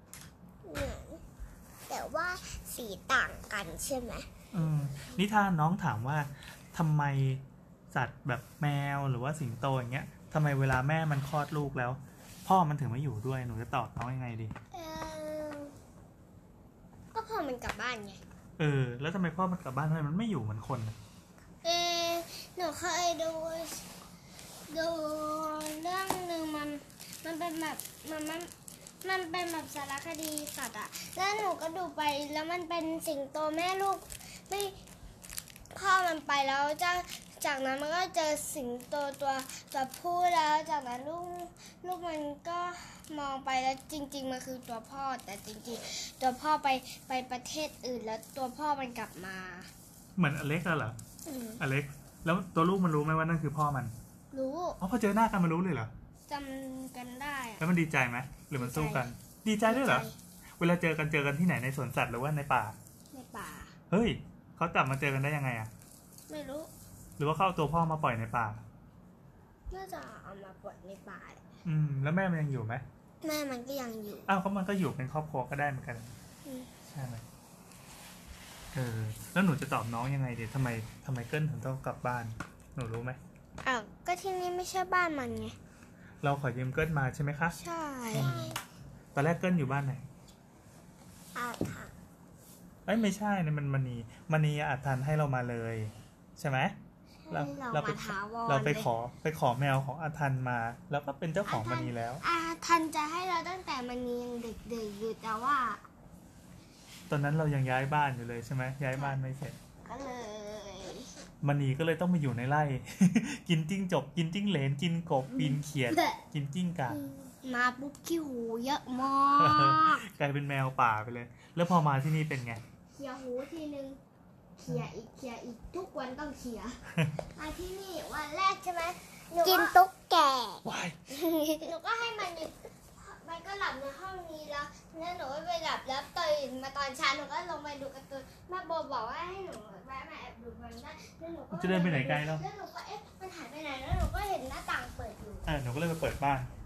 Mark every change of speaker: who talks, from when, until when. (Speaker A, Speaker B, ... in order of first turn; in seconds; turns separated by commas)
Speaker A: 0.7-1.0, Speaker B: 0.9-1.2, Speaker A: 1.9-4.2, Speaker B: 1.9-4.2, Speaker C: 4.5-14.5, Speaker A: 14.7-15.8, Speaker A: 17.1-18.2, Speaker C: 18.6-21.0, Speaker A: 21.6-23.9, Speaker A: 24.7-28.5, Speaker A: 29.0-34.8, Speaker A: 35.7-49.7, Speaker C: 50.2-51.0, Speaker A: 51.3-51.6, Speaker C: 51.6-53.9, Speaker A: 54.3-54.8, Speaker C: 54.8-55.9, Speaker A: 56.3-57.6, Speaker C: 57.6-62.8, Speaker A: 58.6-59.1, Speaker A: 59.7-60.1, Speaker A: 63.1-63.7, Speaker C: 63.9-65.7, Speaker A: 66.3-66.7, Speaker C: 67.2-68.6, Speaker A: 69.7-71.4, Speaker C: 71.7-72.8, Speaker A: 73.2-74.3, Speaker C: 74.3-76.2, Speaker C: 76.9-77.2, Speaker C: 78.7-83.2, Speaker A: 83.6-85.6, Speaker C: 86.2-87.6, Speaker A: 87.6-88.6, Speaker B: 88.1-88.4, Speaker C: 88.1-88.5, Speaker C: 89.1-90.1, Speaker A: 91.3-91.9, Speaker C: 92.9-96.8, Speaker A: 97.3-98.9, Speaker C: 97.3-102.2, Speaker A: 101.4-105.8, Speaker C: 107.1-109.6, Speaker A: 109.8-111.1, Speaker C: 111.4-117.0, Speaker A: 115.3-116.2, Speaker A: 116.9-120.0, Speaker C: 119.4-122.6, Speaker A: 123.0-124.0, Speaker A: 124.6-126.8, Speaker A: 127.4-129.8, Speaker B: 129.3-130.7, Speaker C: 130.7-131.0, Speaker A: 131.6-145.4, Speaker C: 141.5-142.4, Speaker C: 145.5-146.5